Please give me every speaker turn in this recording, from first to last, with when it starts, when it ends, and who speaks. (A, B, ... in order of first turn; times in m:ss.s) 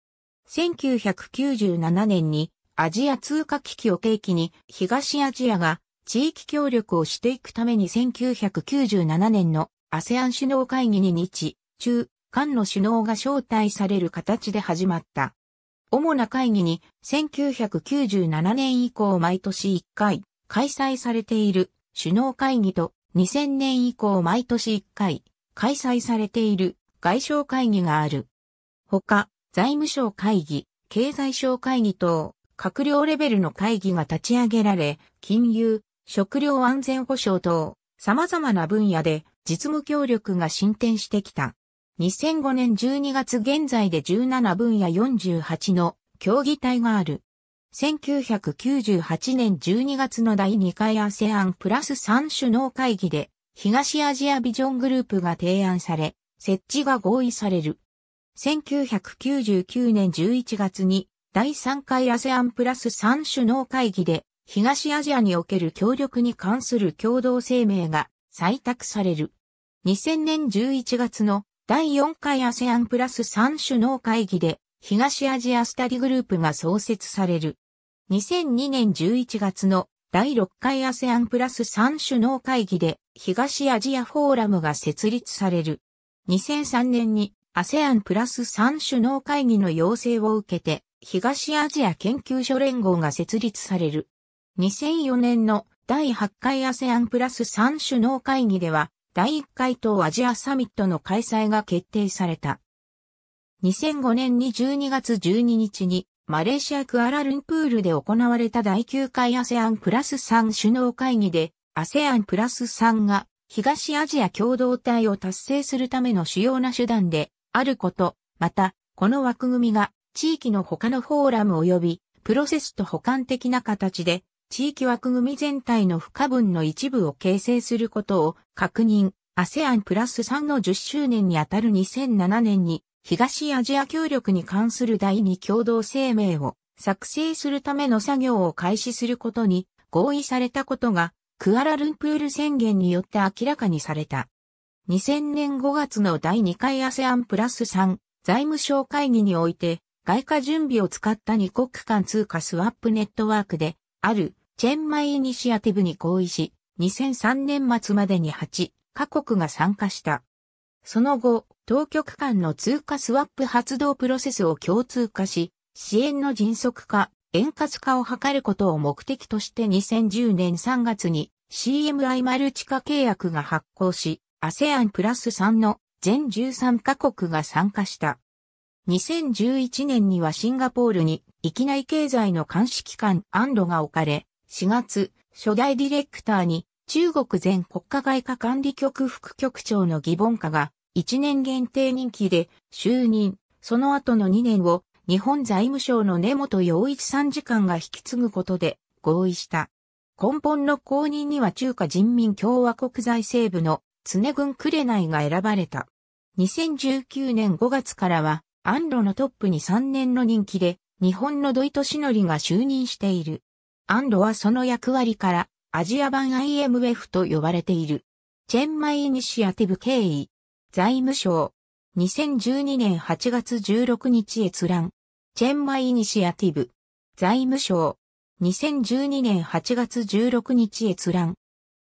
0:00.4-0:15.4 A
0:15.9-0:28.3 A
0:28.9-0:57.8 A
0:58.4-1:42.6 A
1:43.6-2:24.3 A
2:24.9-2:40.2 A
2:40.8-2:58.2 A
2:58.8-3:51.4 A